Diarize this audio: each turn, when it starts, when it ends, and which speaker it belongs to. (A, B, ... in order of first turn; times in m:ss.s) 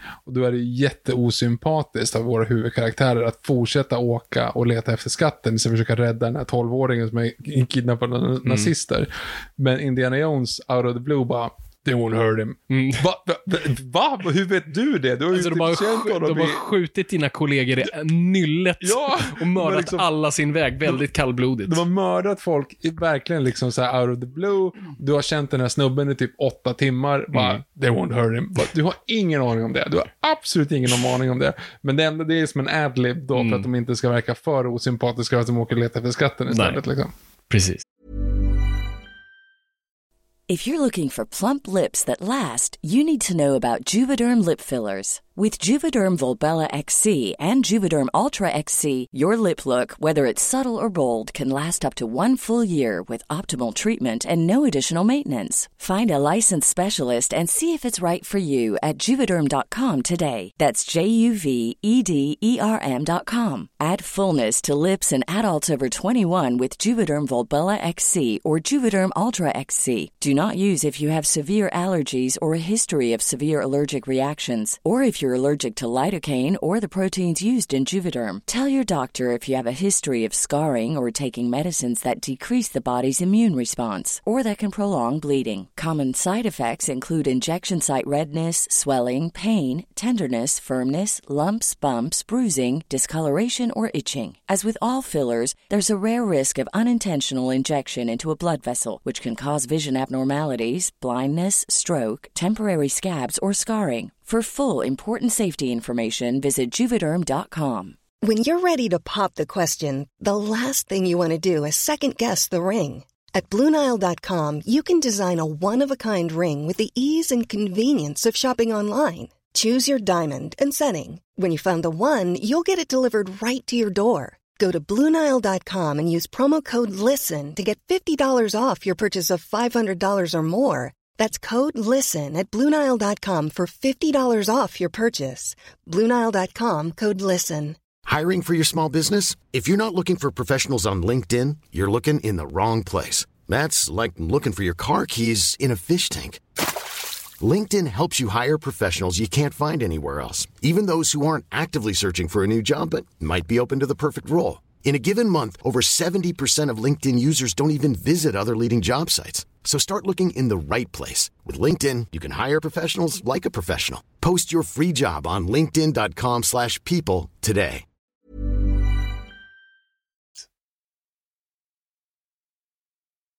0:00.3-0:16.6 A
0:08.4-0:08.7 B
0:12.7-0:13.0 B
0:15.3-0:21.8 B
0:18.8-0:20.1 A
0:21.6-0:37.1 A
0:27.3-0:27.6 B
0:33.4-0:33.7 B
0:36.5-0:36.8 B
0:37.5-0:37.8 B
0:40.5-1:48.0 C
1:48.2-2:17.8 D
2:18.1-2:26.4 E
2:27.4-2:47.8 E